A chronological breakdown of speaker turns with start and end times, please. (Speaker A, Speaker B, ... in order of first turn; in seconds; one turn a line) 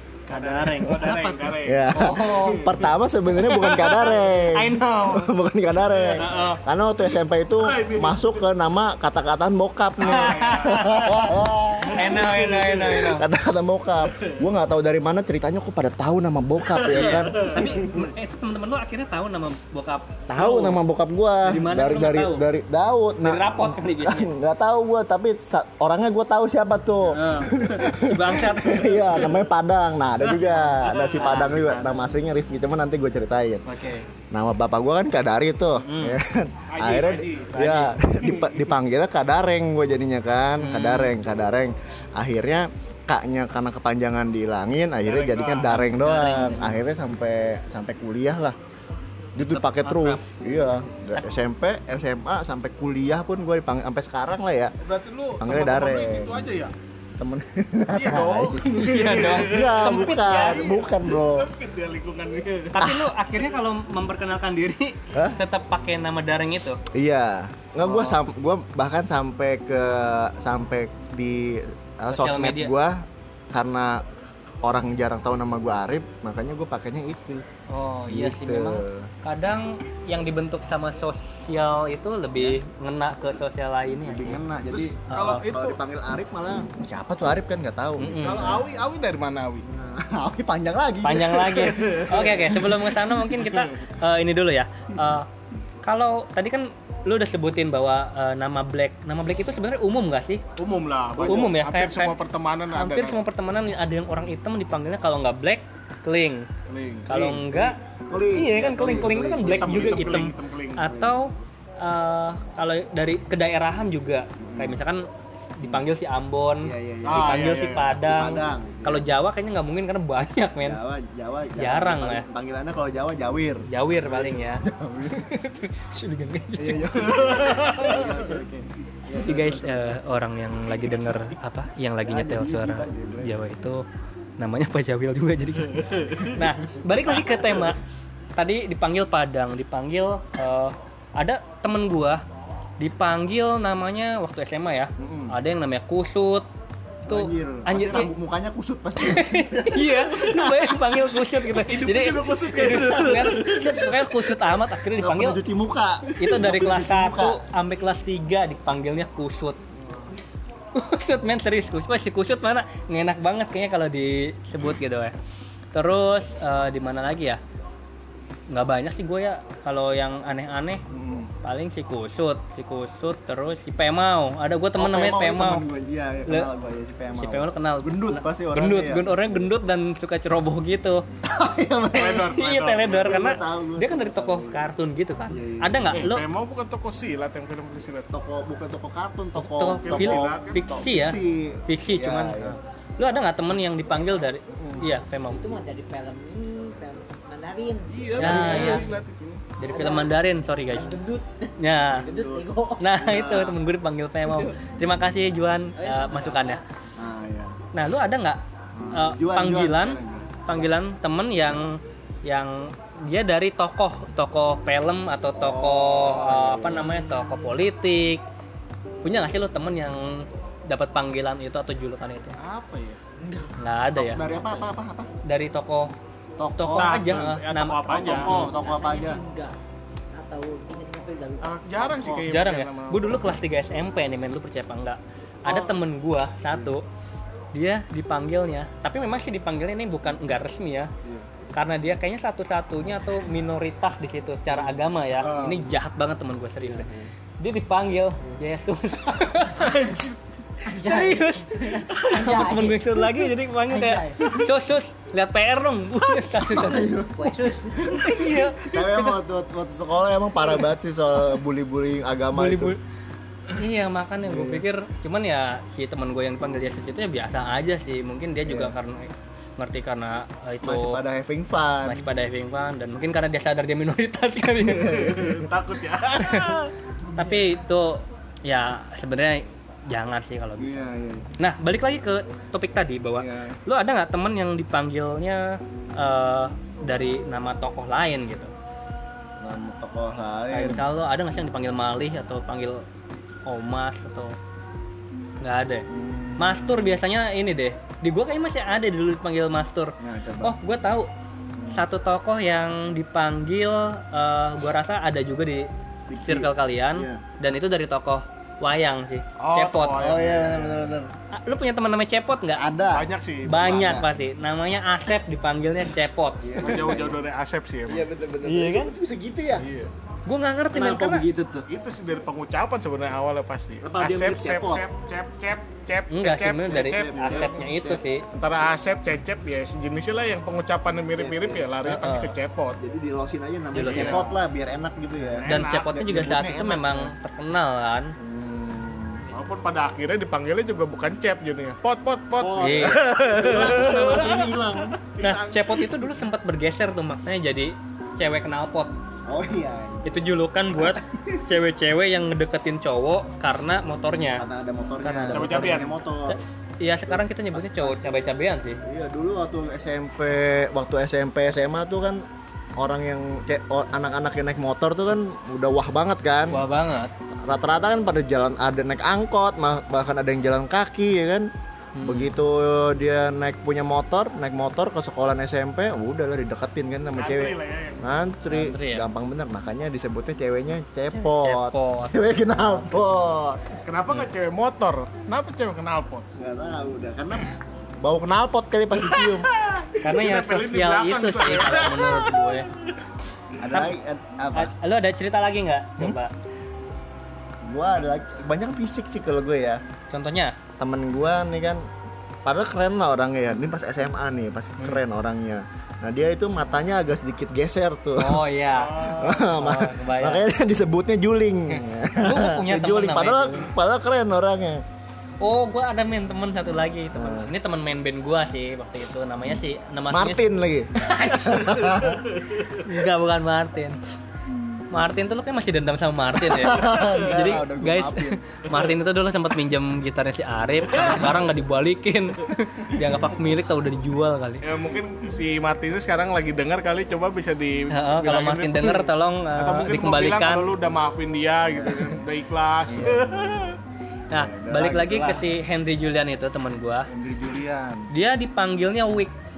Speaker A: 0.3-2.4
Speaker B: 0.3-5.3
Speaker C: 1.6-17.9
Speaker A: 5.9-6.3
Speaker B: 6.2-6.6
Speaker A: 7.6-8.3
Speaker A: 10.0-11.1
Speaker B: 10.0-11.3
Speaker B: 11.9-13.3
Speaker A: 12.2-12.7
Speaker A: 16.7-17.7
Speaker B: 16.9-20.8
Speaker C: 20.3-33.6
Speaker B: 21.4-22.5
Speaker B: 23.2-24.3
Speaker B: 27.1-29.4
Speaker B: 30.2-32.0
Speaker B: 33.7-34.1
Speaker C: 34.3-48.6
Speaker B: 35.8-36.2
Speaker A: 36.7-38.7
Speaker B: 40.6-41.1
Speaker A: 45.1-45.8
Speaker B: 45.7-46.8
Speaker C: 49.4-54.7
Speaker B: 49.4-50.3
Speaker A: 54.8-56.7
Speaker C: 55.4-56.5
Speaker C: 57.2-58.7
Speaker A: 57.9-62.8
Speaker B: 58.6-60.7
Speaker C: 59.3-61.5
Speaker B: 62.8-66.8
Speaker C: 62.8-63.1
Speaker C: 65.1-65.4
Speaker C: 66.8-74.0
Speaker B: 67.8-68.2
Speaker B: 72.1-72.7
Speaker C: 74.6-77.4
Speaker B: 77.7-84.4
Speaker C: 78.1-79.1
Speaker C: 84.0-88.7
Speaker A: 84.7-85.8
Speaker B: 85.1-85.5
Speaker B: 88.0-88.6
Speaker A: 88.2-89.7
Speaker C: 89.7-92.9
Speaker B: 91.0-95.3
Speaker B: 95.8-100.4
Speaker A: 100.6-103.2
Speaker B: 101.2-102.1
Speaker B: 102.8-106.5
Speaker A: 106.7-107.1
Speaker B: 107.1-107.8
Speaker C: 107.1-110.3
Speaker B: 108.3-120.8
Speaker A: 109.5-110.9
Speaker C: 110.8-111.2
Speaker C: 114.4-114.8
Speaker C: 116.6-117.5
Speaker A: 117.1-118.0
Speaker C: 118.0-119.1
Speaker C: 120.6-125.3
Speaker B: 121.6-122.3
Speaker B: 123.7-127.0
Speaker C: 126.6-130.1
Speaker A: 127.0-128.2
Speaker B: 129.2-133.8
Speaker C: 132.0-133.4
Speaker B: 134.4-137.8
Speaker B: 138.4-142.2
Speaker B: 142.8-146.5
Speaker C: 145.0-145.4
Speaker B: 147.1-148.1
Speaker C: 147.1-151.1
Speaker B: 149.0-155.4
Speaker A: 151.6-153.8
Speaker C: 155.0-157.4
Speaker B: 156.2-159.6
Speaker B: 160.7-165.2
Speaker B: 165.7-167.4
Speaker B: 168.5-170.8
Speaker C: 170.9-171.3
Speaker B: 171.4-175.6
Speaker C: 174.8-179.4
Speaker B: 177.2-181.0
Speaker C: 181.2-184.7
Speaker A: 181.9-183.0
Speaker B: 182.2-186.2
Speaker C: 185.3-186.1
Speaker A: 185.9-188.1
Speaker C: 188.1-192.6
Speaker B: 189.4-195.6
Speaker A: 189.8-190.7
Speaker C: 194.5-194.9
Speaker D: 195.2-198.8
Speaker A: 197.9-199.4
Speaker B: 198.2-198.9
Speaker C: 198.2-198.9
Speaker B: 199.6-201.0
Speaker D: 199.7-200.2
Speaker D: 200.7-202.9
Speaker B: 201.6-202.1
Speaker C: 201.9-203.6
Speaker B: 202.8-206.6
Speaker D: 205.8-206.6
Speaker C: 207.0-207.6
Speaker B: 207.7-208.4
Speaker C: 208.8-210.7
Speaker B: 208.9-218.2
Speaker C: 215.4-217.1
Speaker B: 219.0-222.3
Speaker A: 222.4-223.0
Speaker C: 223.2-225.1
Speaker B: 223.6-224.3
Speaker D: 224.2-224.7
Speaker B: 225.2-225.9
Speaker C: 226.4-227.1
Speaker B: 226.6-228.5
Speaker A: 226.8-228.4
Speaker C: 227.9-229.2
Speaker D: 228.3-229.6
Speaker D: 230.1-232.2
Speaker A: 231.4-233.2
Speaker C: 232.0-232.3
Speaker B: 232.3-236.8
Speaker B: 237.5-240.9
Speaker B: 241.5-250.1
Speaker C: 244.5-245.8
Speaker C: 246.6-247.1
Speaker D: 250.6-254.5
Speaker B: 250.7-257.0
Speaker C: 256.4-262.8
Speaker D: 256.5-258.4
Speaker B: 257.9-259.2
Speaker B: 262.3-262.8
Speaker B: 263.6-271.0
Speaker C: 264.2-264.6
Speaker C: 268.5-268.8
Speaker C: 270.6-272.1
Speaker B: 271.8-275.4
Speaker C: 274.9-275.3
Speaker A: 275.0-276.7
Speaker B: 276.2-276.5
Speaker B: 277.1-280.9
Speaker C: 277.2-277.4
Speaker C: 280.6-281.3
Speaker B: 281.4-288.5
Speaker C: 283.2-283.6
Speaker C: 289.4-290.8
Speaker B: 290.5-292.8
Speaker B: 293.5-294.4
Speaker B: 295.4-301.1
Speaker C: 295.9-297.0
Speaker C: 300.0-300.6
Speaker C: 301.6-301.8
Speaker B: 301.7-310.2
Speaker C: 306.1-307.2
Speaker A: 309.4-311.0
Speaker C: 310.0-311.1
Speaker B: 311.3-312.6
Speaker C: 312.6-314.1
Speaker A: 312.9-313.8
Speaker B: 313.5-316.7
Speaker C: 316.4-317.2
Speaker A: 316.6-318.1
Speaker C: 317.9-319.7
Speaker B: 318.4-318.9
Speaker A: 319.6-319.9
Speaker B: 320.3-321.2
Speaker C: 320.7-321.7
Speaker A: 321.7-327.6
Speaker C: 323.8-324.9
Speaker B: 326.1-328.2
Speaker C: 326.9-328.0
Speaker A: 328.3-332.8
Speaker C: 331.2-331.7
Speaker B: 331.8-332.3
Speaker C: 332.8-337.1
Speaker B: 333.7-334.2
Speaker A: 333.8-334.3
Speaker A: 335.3-336.0
Speaker B: 335.5-338.1
Speaker C: 338.2-339.3
Speaker A: 339.3-346.0
Speaker C: 342.4-345.0
Speaker B: 342.6-343.0
Speaker B: 345.2-348.9
Speaker C: 349.3-350.2
Speaker B: 350.1-354.5
Speaker C: 350.8-351.4
Speaker C: 354.3-356.4
Speaker B: 355.0-358.8
Speaker A: 355.3-355.9
Speaker C: 357.1-358.1
Speaker C: 358.8-362.2
Speaker C: 362.8-366.6
Speaker B: 366.5-367.1
Speaker C: 367.4-371.5
Speaker B: 371.9-372.3
Speaker C: 372.0-383.7
Speaker A: 377.1-378.1
Speaker B: 378.5-379.1
Speaker B: 381.1-382.1
Speaker A: 383.9-386.3
Speaker C: 386.4-389.5
Speaker A: 389.0-392.6
Speaker B: 390.0-392.7
Speaker C: 393.6-394.7
Speaker B: 394.5-396.3
Speaker C: 397.6-399.8
Speaker B: 400.1-400.6
Speaker C: 400.8-401.9
Speaker C: 402.4-414.8
Speaker B: 408.2-410.4
Speaker A: 408.8-409.4
Speaker B: 411.7-413.7
Speaker B: 415.4-420.4
Speaker C: 417.1-417.5
Speaker C: 420.1-422.2
Speaker B: 421.0-424.0
Speaker B: 424.9-434.7
Speaker C: 426.4-428.4
Speaker A: 434.6-443.8
Speaker B: 437.9-440.7
Speaker C: 441.7-442.1
Speaker C: 442.9-443.6
Speaker B: 444.3-447.1
Speaker C: 444.3-445.4
Speaker C: 447.1-448.1
Speaker B: 448.1-449.3